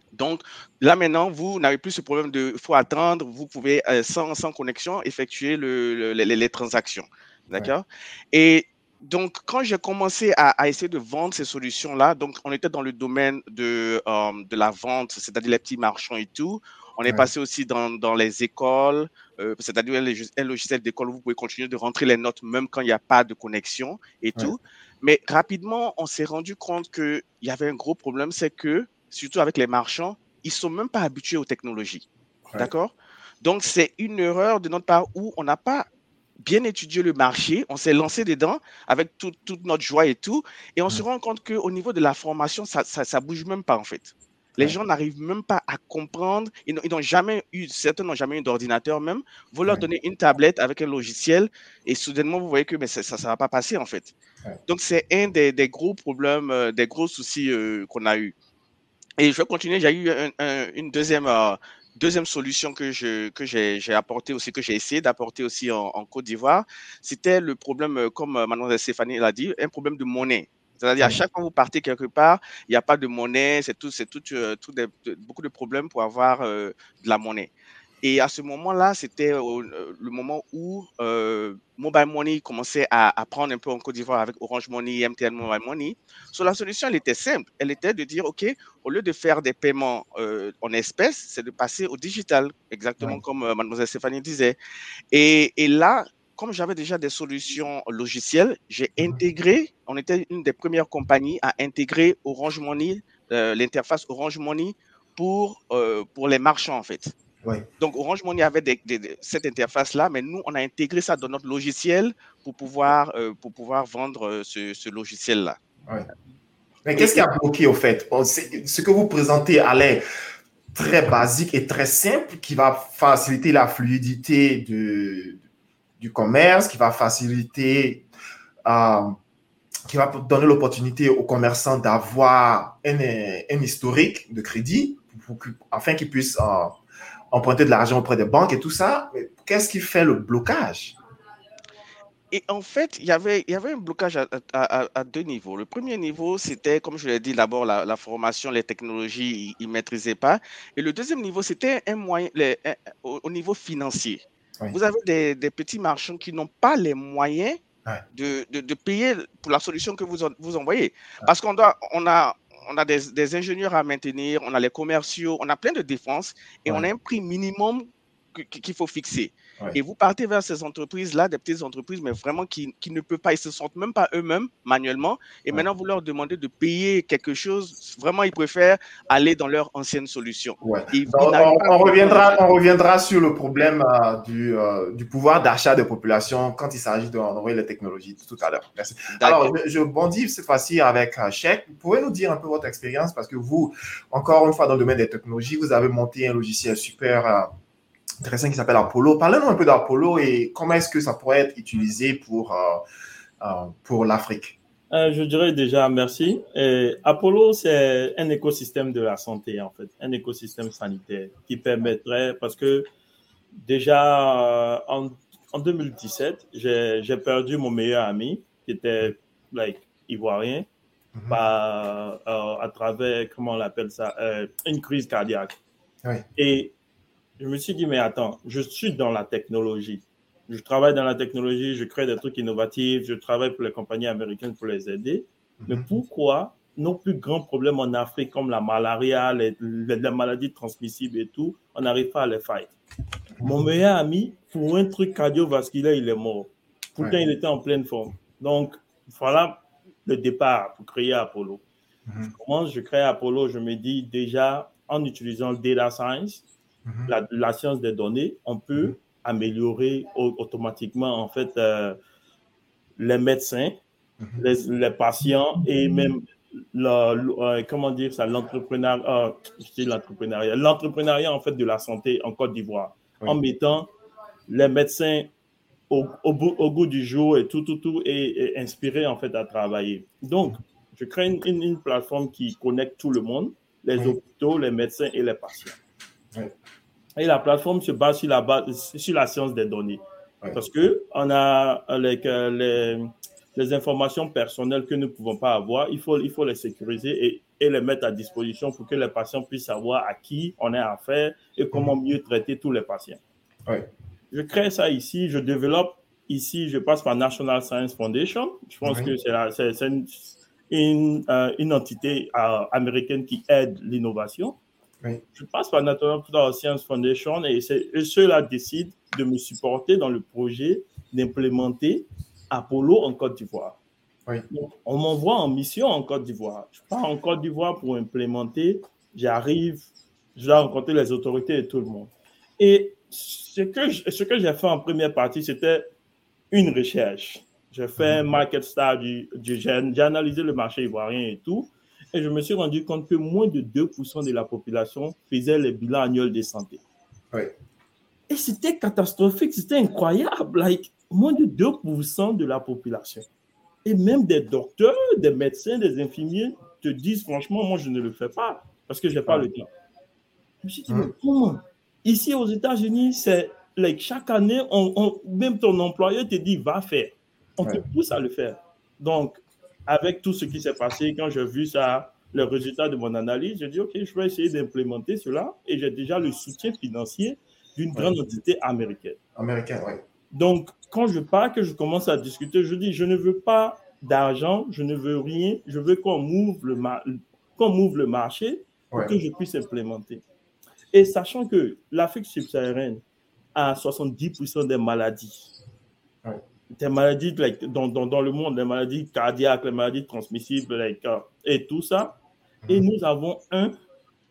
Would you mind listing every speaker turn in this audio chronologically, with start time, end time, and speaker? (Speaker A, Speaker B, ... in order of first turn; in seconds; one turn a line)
Speaker A: 0.1-32.0
Speaker A: 32.6-35.9
Speaker A: 36.4-54.1
Speaker A: 54.7-58.3
Speaker A: 59.2-94.5
Speaker A: 95.1-107.1
Speaker A: 107.8-115.6
Speaker B: 116.8-120.0
Speaker A: 116.9-117.3
Speaker B: 120.7-125.4
Speaker B: 126.0-128.0
Speaker B: 128.6-129.1
Speaker B: 129.9-136.8
Speaker B: 137.3-141.0
Speaker A: 142.3-157.6
Speaker A: 158.1-182.4
Speaker B: 180.6-197.5
Speaker A: 189.2-189.5
Speaker B: 198.2-202.8
Speaker B: 203.4-204.6
Speaker C: 204.9-212.9
Speaker C: 213.6-220.7
Speaker B: 221.1-221.4
Speaker C: 221.3-225.6
Speaker C: 226.3-226.7
Speaker C: 227.4-242.8
Speaker B: 235.6-235.9
Speaker B: 243.4-243.6
Speaker C: 243.4-251.6
Speaker B: 252.1-252.3
Speaker C: 252.3-256.4
Speaker B: 256.9-257.1
Speaker C: 257.1-262.0
Speaker C: 263.0-263.8
Speaker C: 264.4-273.9
Speaker C: 274.5-275.3
Speaker C: 275.9-285.8
Speaker C: 287.1-290.0
Speaker C: 290.5-303.2
Speaker C: 304.3-314.6
Speaker B: 308.8-309.1
Speaker C: 315.3-323.8
Speaker C: 324.5-335.9
Speaker C: 336.5-346.8
Speaker C: 348.3-353.3
Speaker C: 353.8-359.7
Speaker C: 360.6-379.2
Speaker B: 379.4-380.0
Speaker C: 380.3-390.2
Speaker B: 388.9-389.1
Speaker C: 390.9-393.0
Speaker C: 393.5-395.5
Speaker C: 396.7-403.7